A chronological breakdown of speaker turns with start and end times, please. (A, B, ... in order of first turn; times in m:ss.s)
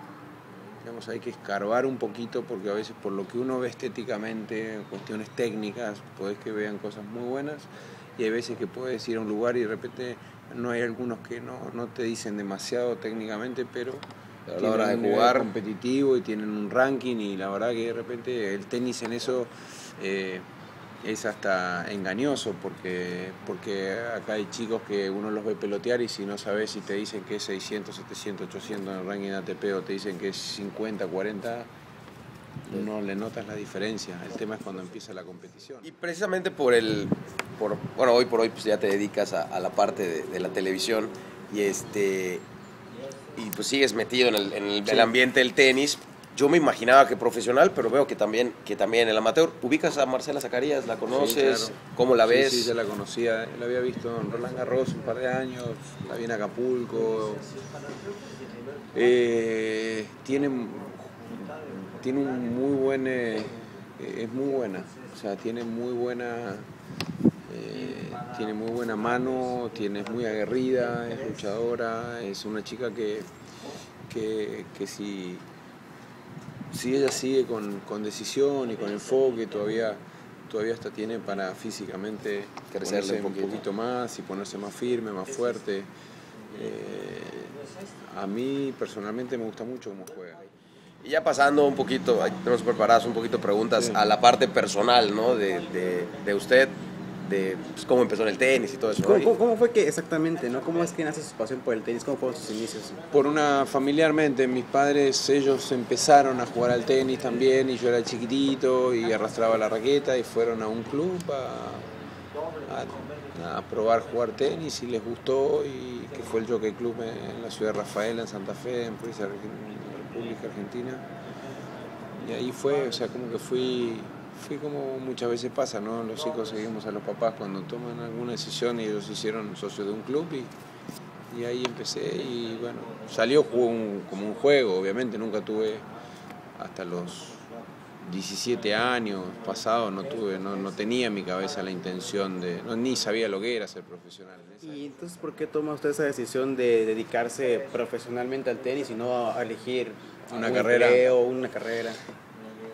0:00.8-0:14.0 A
0:14.5-0:15.5 B
0:14.6-0:20.5 A
0:21.0-0:31.7 A
0:32.6-0:35.9 A
0:35.8-0:42.5 B
0:43.4-0:52.7 B
0:44.9-0:45.1 A
0:51.1-0:57.5 A
0:58.9-1:06.7 A
1:07.4-1:13.3 A
1:14.1-1:15.5 A
1:16.7-1:25.9 A
1:22.7-1:23.7 B
1:26.5-1:30.5 A
1:31.0-1:39.3 B
1:38.9-1:43.0 C
1:43.1-1:51.9 A
1:52.6-2:01.1 A
2:02.2-2:10.5 A
2:11.3-2:15.9 A
2:16.6-2:17.5 A
2:18.0-2:24.9 A
2:24.6-2:32.0 C
2:30.3-2:31.1 A